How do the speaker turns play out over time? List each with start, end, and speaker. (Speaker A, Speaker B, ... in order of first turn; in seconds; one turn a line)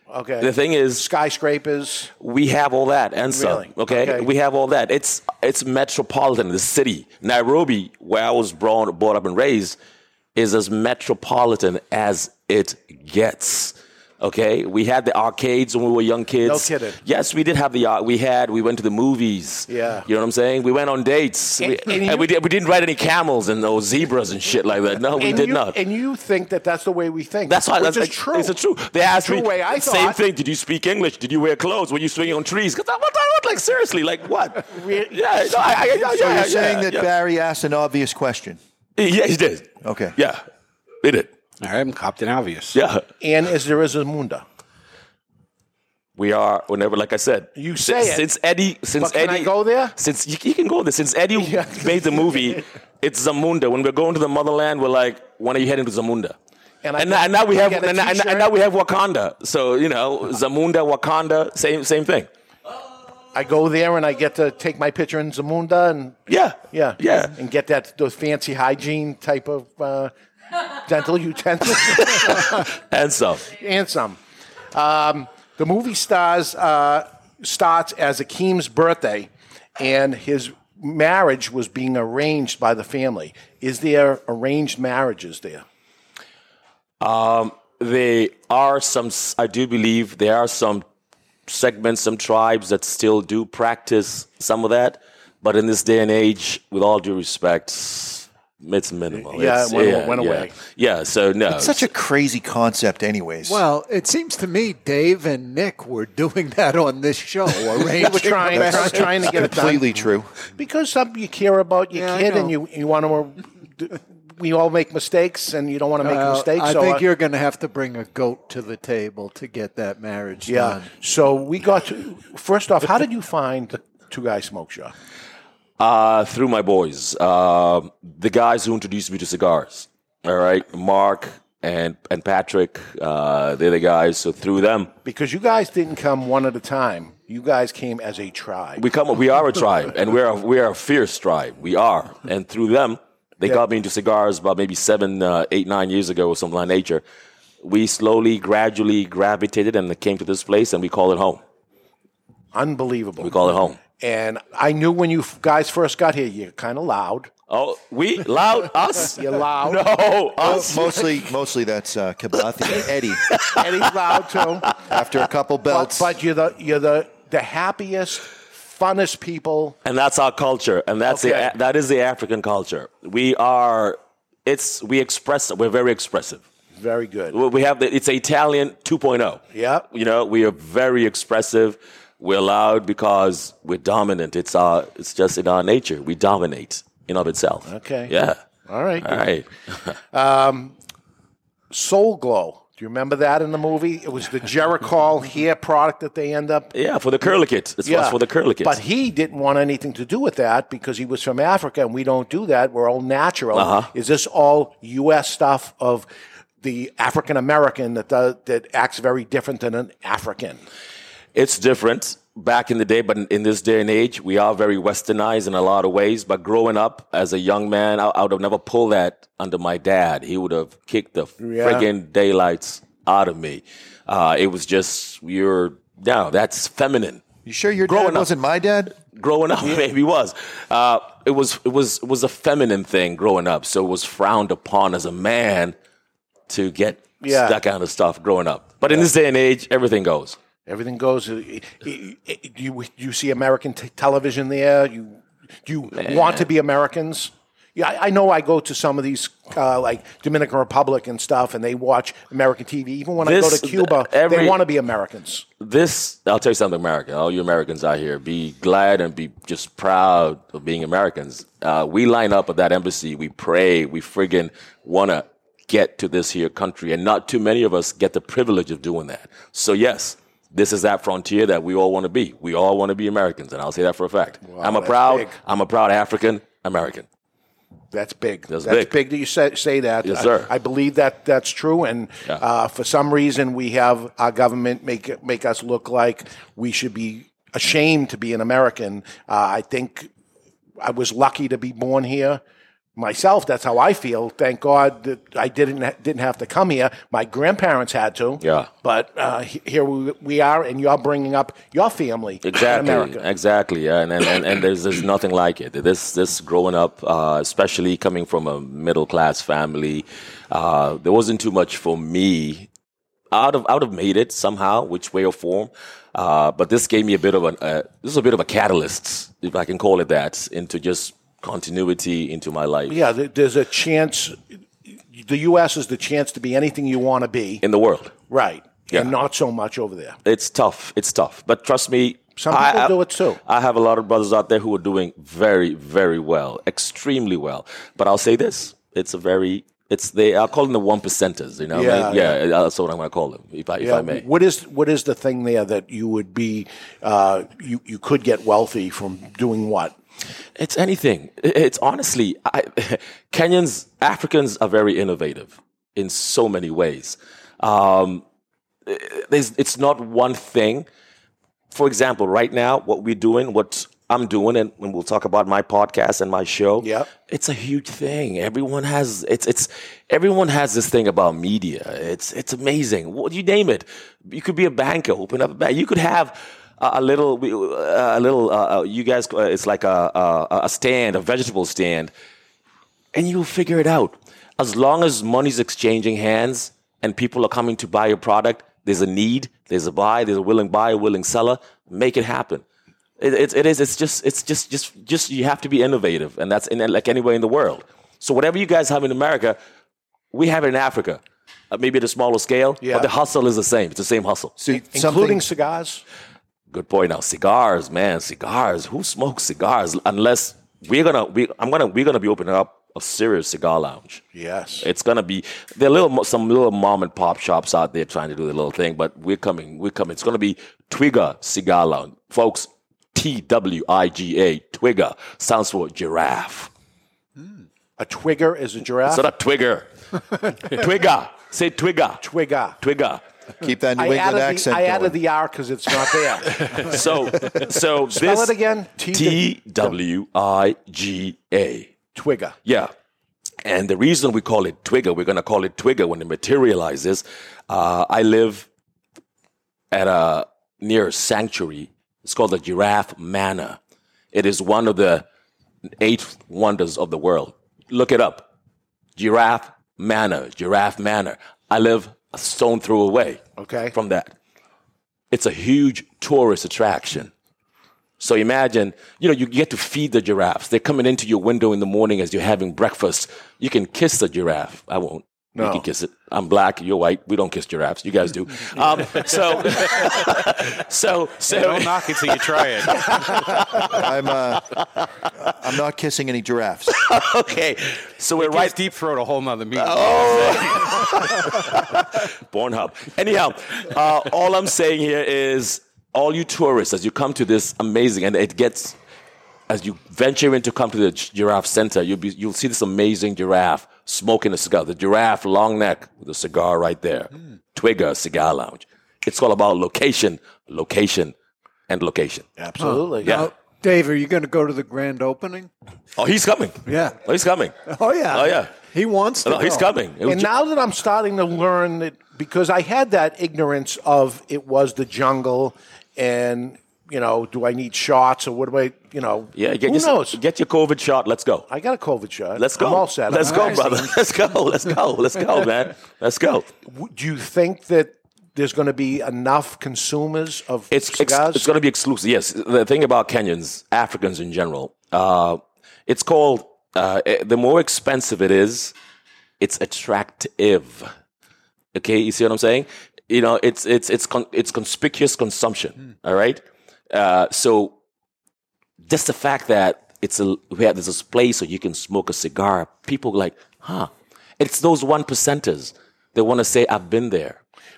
Speaker A: 0.1-2.1
Speaker B: 0.4-1.1
Speaker B: 2.2-9.8
Speaker A: 3.3-4.3
Speaker B: 10.3-25.8
Speaker A: 16.4-17.0
Speaker A: 19.7-20.1
Speaker A: 21.6-22.3
Speaker A: 25.2-30.2
Speaker B: 27.5-37.1
Speaker A: 34.7-35.9
Speaker C: 35.9-38.6
Speaker B: 39.0-40.4
Speaker C: 39.8-40.1
Speaker B: 41.0-41.3
Speaker D: 41.6-42.8
Speaker B: 42.7-43.0
Speaker A: 43.2-44.4
Speaker B: 46.2-56.4
Speaker A: 47.5-48.2
Speaker A: 49.0-50.0
Speaker A: 51.3-52.6
Speaker A: 56.8-58.5
Speaker B: 57.0-62.3
Speaker A: 63.3-70.1
Speaker B: 66.3-67.3
Speaker A: 70.8-72.5
Speaker B: 72.2-73.5
Speaker A: 73.5-74.2
Speaker A: 74.7-85.6
Speaker B: 87.0-90.8
Speaker B: 91.5-101.9
Speaker A: 99.1-100.6
Speaker C: 101.5-103.6
Speaker E: 103.4-109.7
Speaker A: 107.8-109.9
Speaker C: 108.5-110.3
Speaker A: 110.6-117.0
Speaker E: 111.9-112.5
Speaker E: 116.0-120.9
Speaker A: 120.5-124.9
Speaker B: 125.8-134.9
Speaker A: 135.0-138.8
Speaker B: 138.8-147.0
Speaker B: 147.6-151.4
Speaker A: 152.5-157.3
Speaker B: 153.2-153.8
Speaker B: 157.5-161.0
Speaker A: 159.0-161.1
Speaker C: 160.4-163.2
Speaker B: 163.3-163.9
Speaker A: 163.5-164.8
Speaker C: 164.8-166.1
Speaker A: 165.7-169.8
Speaker B: 169.8-176.4
Speaker A: 171.1-171.5
Speaker A: 176.7-177.4
Speaker B: 177.3-188.4
Speaker A: 179.5-179.8
Speaker A: 187.7-188.1
Speaker A: 188.7-189.2
Speaker B: 189.0-189.5
Speaker A: 190.1-190.7
Speaker A: 191.7-196.7
Speaker B: 196.7-198.8
Speaker A: 197.8-206.1
Speaker B: 203.5-203.9
Speaker A: 206.6-210.6
Speaker B: 211.3-227.2
Speaker A: 221.4-221.9
Speaker C: 227.4-228.9
Speaker B: 227.8-228.3
Speaker B: 229.1-235.7
Speaker B: 236.5-240.4
Speaker A: 237.2-237.6
Speaker A: 240.7-255.5
Speaker B: 245.9-246.5
Speaker B: 253.2-254.6
Speaker B: 255.6-277.1
Speaker A: 274.4-275.4
Speaker A: 277.9-290.1
Speaker B: 278.5-278.9
Speaker B: 280.0-280.5
Speaker A: 290.8-292.4
Speaker A: 293.0-303.2
Speaker B: 298.4-298.7
Speaker B: 302.4-312.7
Speaker B: 313.3-323.0
Speaker A: 322.9-327.6
Speaker B: 327.6-328.1
Speaker A: 328.3-330.2
Speaker B: 330.2-344.2
Speaker A: 332.3-333.4
Speaker A: 341.7-342.4
Speaker A: 343.8-349.9
Speaker B: 350.6-358.2
Speaker B: 358.9-360.9
Speaker B: 361.7-382.1
Speaker A: 366.8-367.1
Speaker B: 383.1-392.6
Speaker B: 393.2-399.6
Speaker B: 400.3-404.5
Speaker A: 402.8-403.1
Speaker C: 404.6-405.4
Speaker A: 404.9-406.0
Speaker B: 406.7-414.2
Speaker A: 414.3-414.9
Speaker B: 414.8-426.7
Speaker A: 428.0-429.2
Speaker B: 429.0-429.9
Speaker B: 430.6-432.2
Speaker A: 432.2-432.8
Speaker B: 432.8-433.2
Speaker C: 433.6-435.2
Speaker A: 434.0-436.9
Speaker B: 436.8-442.0
Speaker A: 438.1-439.9
Speaker A: 442.1-442.6
Speaker B: 442.6-442.9
Speaker B: 443.6-448.7
Speaker B: 449.9-453.8
Speaker B: 454.3-455.2
Speaker B: 456.0-458.5
Speaker B: 459.1-463.4
Speaker A: 463.6-463.9
Speaker B: 463.9-464.3
Speaker B: 465.3-467.3
Speaker B: 468.2-483.9
Speaker A: 475.5-475.8
Speaker D: 481.5-483.2
Speaker C: 483.8-484.6
Speaker C: 485.4-487.0
Speaker B: 486.9-488.8
Speaker D: 488.4-491.1
Speaker B: 489.8-498.9
Speaker B: 499.7-511.3
Speaker B: 511.9-512.5
Speaker A: 512.6-513.3
Speaker E: 512.8-515.7
Speaker B: 513.2-513.5
Speaker B: 516.1-517.7
Speaker E: 516.9-517.2
Speaker E: 517.9-519.9
Speaker B: 518.3-518.7
Speaker B: 519.4-520.5
Speaker A: 520.2-530.4
Speaker B: 529.5-531.7
Speaker A: 531.7-534.1
Speaker B: 532.5-536.6
Speaker E: 533.4-533.8
Speaker A: 536.9-541.7
Speaker B: 540.9-548.9
Speaker B: 549.6-551.1
Speaker B: 551.9-558.0
Speaker B: 559.0-567.6